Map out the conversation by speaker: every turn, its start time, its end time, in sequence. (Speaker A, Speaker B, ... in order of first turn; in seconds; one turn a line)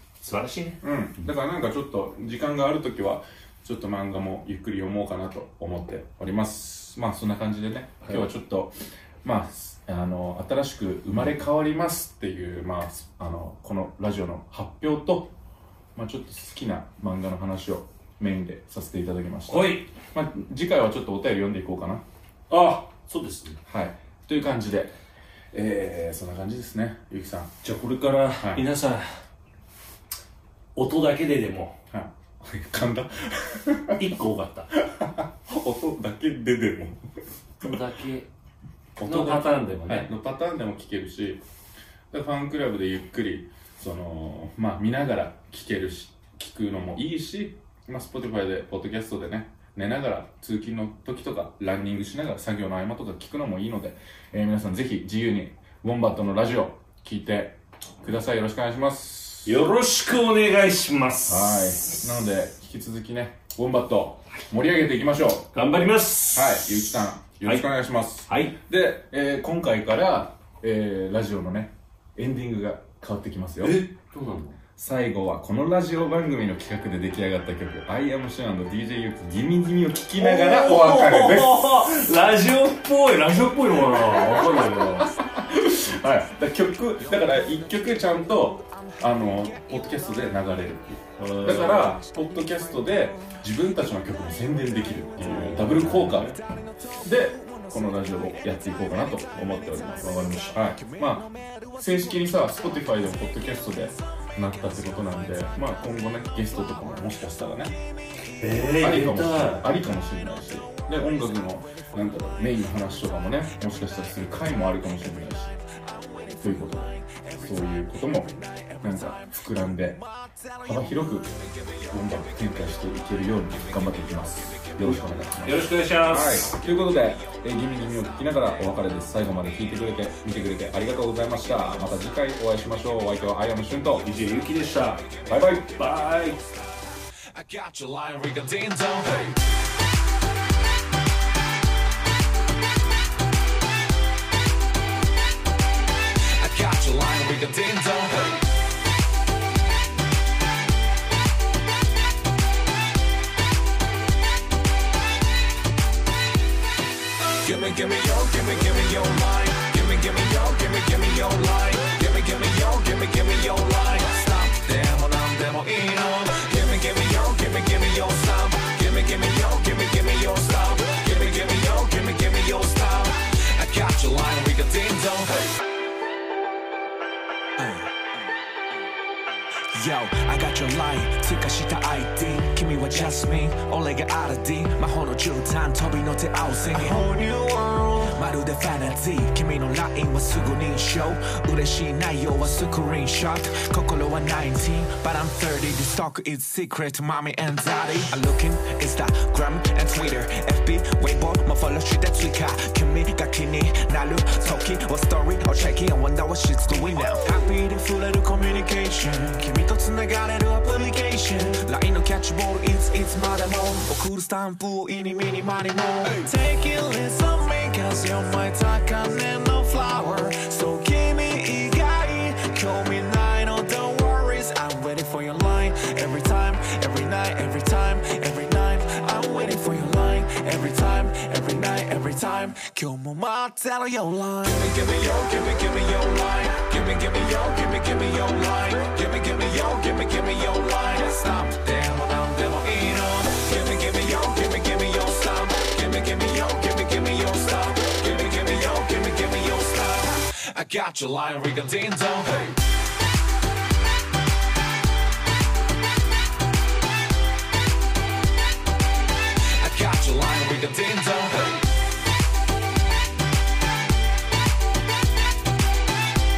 Speaker A: 0.2-0.8
Speaker B: 0.8-15.3
Speaker B: 15.9-22.0
Speaker A: 19.5-19.9
Speaker A: 22.5-23.6
Speaker B: 23.6-24.9
Speaker B: 25.5-27.6
Speaker A: 27.6-29.1
Speaker B: 28.4-28.6
Speaker A: 30.8-31.8
Speaker B: 31.9-34.0
Speaker A: 34.0-34.7
Speaker B: 34.7-37.0
Speaker A: 37.6-38.3
Speaker B: 39.0-41.4
Speaker A: 39.0-40.1
Speaker B: 42.1-59.6
Speaker A: 59.5-62.1
Speaker B: 61.2-65.5
Speaker A: 65.5-66.9
Speaker B: 66.3-73.8
Speaker A: 68.2-68.6
Speaker A: 73.6-74.6
Speaker B: 74.8-81.9
Speaker A: 80.2-85.1
Speaker B: 84.2-84.6
Speaker B: 85.2-96.3
Speaker A: 91.2-92.0
Speaker A: 95.2-96.3
Speaker C: 96.3-98.2
Speaker B: 97.0-101.2
Speaker A: 100.0-100.6
Speaker C: 100.5-101.3
Speaker B: 101.8-107.7
Speaker A: 108.4-109.7
Speaker B: 108.8-115.5
Speaker C: 115.8-119.4
Speaker B: 116.4-120.0
Speaker C: 119.9-122.4
Speaker B: 120.6-121.3
Speaker B: 121.9-134.1
Speaker C: 123.9-124.7
Speaker A: 124.8-126.6
Speaker C: 126.6-127.4
Speaker A: 134.0-136.4
Speaker C: 134.9-136.3
Speaker B: 135.3-135.7
Speaker C: 137.3-139.4
Speaker C: 146.3-148.4
Speaker C: 157.4-175.6
Speaker C: 177.6-177.9
Speaker C: 179.7-252.6
Speaker C: 259.5-261.6